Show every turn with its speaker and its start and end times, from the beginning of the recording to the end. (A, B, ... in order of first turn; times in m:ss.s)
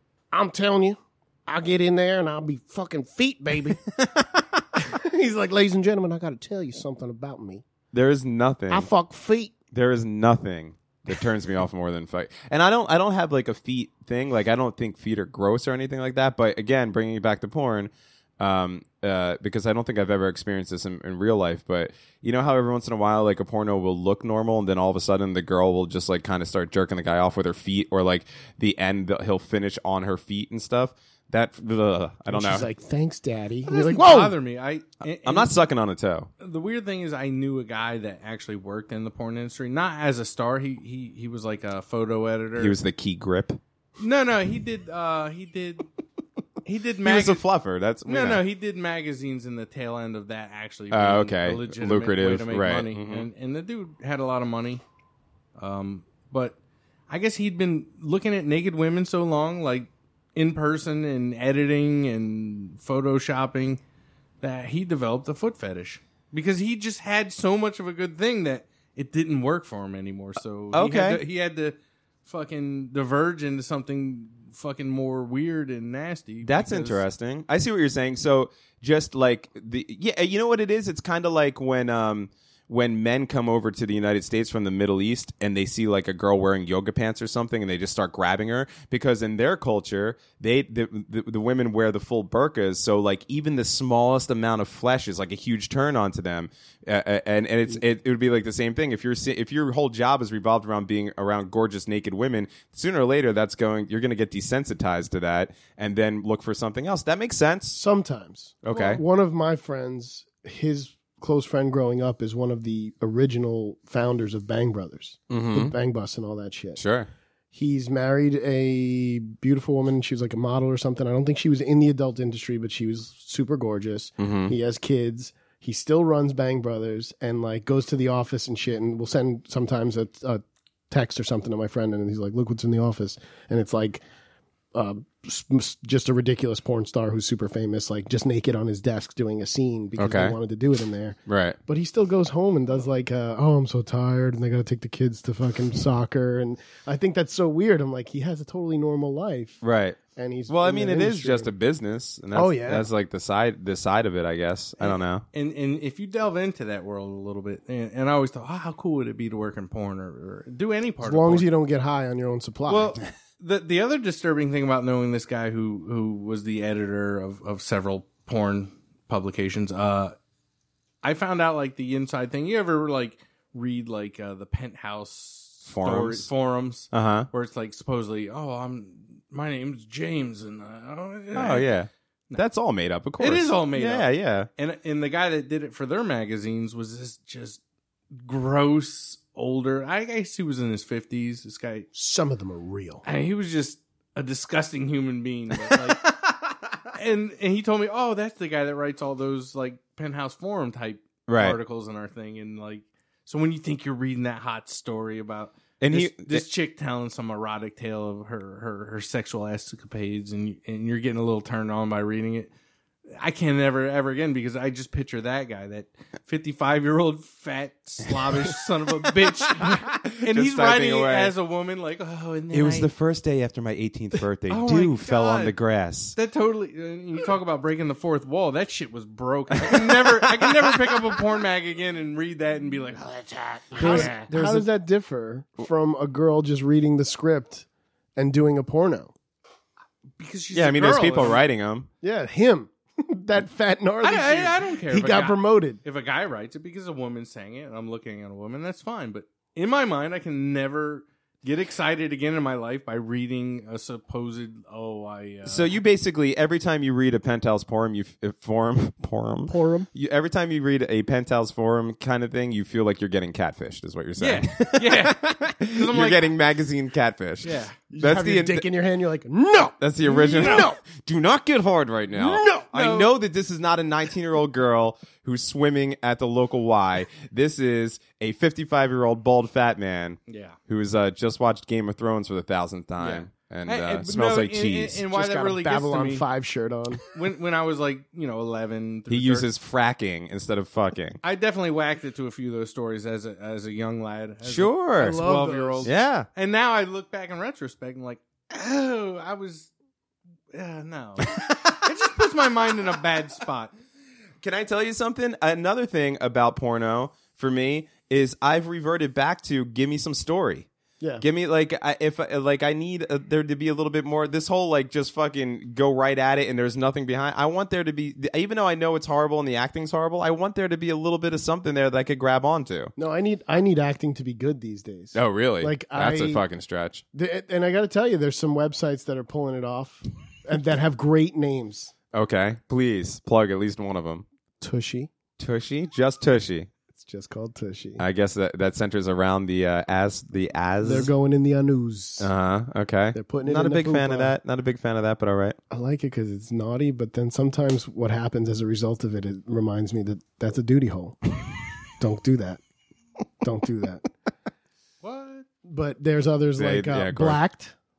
0:00.3-0:03.8 A
0:04.0-0:04.6 B
0:04.8-0:07.6 A
0:07.9-0:08.9 B
0:08.7-0:09.5 A
0:09.7-0:32.7 B
0:32.3-0:34.4 A
0:33.7-0:35.6 C
0:35.2-0:36.3 B
0:36.4-0:42.8 C
0:42.6-0:43.6 B
0:44.0-0:45.9 C
0:46.6-0:47.4 C
0:47.0-0:48.4 B
0:48.0-0:54.8 C
0:50.9-0:53.3 B
0:55.6-0:56.6 C
0:57.1-1:03.8 C
1:04.4-1:17.0 C
1:10.7-1:11.2 B
1:16.4-1:47.8 B
1:47.7-1:56.8 A
1:48.6-1:49.0 B
1:55.3-1:55.7 B
1:56.8-1:57.1 B
1:57.5-2:14.0 A
2:04.2-2:04.5 B
2:14.7-2:29.6 A
2:20.0-2:20.4 B
2:21.3-2:21.6 B
2:29.6-2:35.2 B
2:30.2-2:31.5 A
2:32.3-2:32.9 A
2:34.8-2:41.5 C
2:41.0-2:43.0 A
2:42.7-2:50.1 C
2:51.0-3:01.7 C
2:55.7-2:56.3 B
2:56.9-2:57.3 B
3:01.3-3:04.5 B
3:03.2-3:07.6 C
3:08.2-3:11.9 C
3:11.9-3:13.0 A
3:13.0-3:16.1 C
3:15.7-3:16.3 B
3:16.9-3:32.5 C
3:21.3-3:21.6 B
3:25.8-3:26.4 B
3:33.1-3:42.9 C
3:39.5-3:41.3 B
3:42.5-3:46.2 B
3:44.5-3:45.5 C
3:46.1-3:54.3 C
3:49.5-3:51.0 B
3:53.8-3:59.1 A
3:53.8-3:54.6 B
4:00.2-4:01.4 C
4:00.5-4:01.9 B
4:02.0-4:05.8 A
4:04.0-4:15.8 C
4:15.4-4:28.7 B
4:19.5-4:19.9 A
4:24.2-4:26.3 C
4:27.4-4:27.8 C
4:27.9-4:30.8 A
4:29.8-4:45.0 B
4:30.1-4:30.7 C
4:32.1-4:32.7 A
4:32.7-4:33.1 C
4:40.3-4:40.6 C
4:43.0-4:46.2 C
4:45.1-4:47.0 A
4:47.0-4:49.5 C
4:49.1-4:51.2 B
4:51.2-4:59.7 C
4:54.4-4:55.2 B
4:55.0-4:55.9 A
4:55.8-4:56.3 B
5:00.5-5:03.7 C
5:01.2-5:01.8 B
5:04.4-5:10.7 B
5:11.2-5:22.9 B
5:23.0-5:26.4 A
5:25.1-5:27.0 B
5:27.1-5:31.9 A
5:32.1-5:34.2 B
5:34.6-5:35.1 A
5:35.4-5:36.7 B
5:37.0-5:38.0 A
5:38.0-5:41.1 B
5:40.8-5:42.3 A
5:42.2-5:45.6 B
5:43.1-5:44.3 A
5:45.7-5:51.2 A
5:52.0-5:52.6 A
5:53.4-5:54.1 A
5:55.0-5:55.5 C
5:55.6-5:57.8 A
5:56.6-5:57.4 B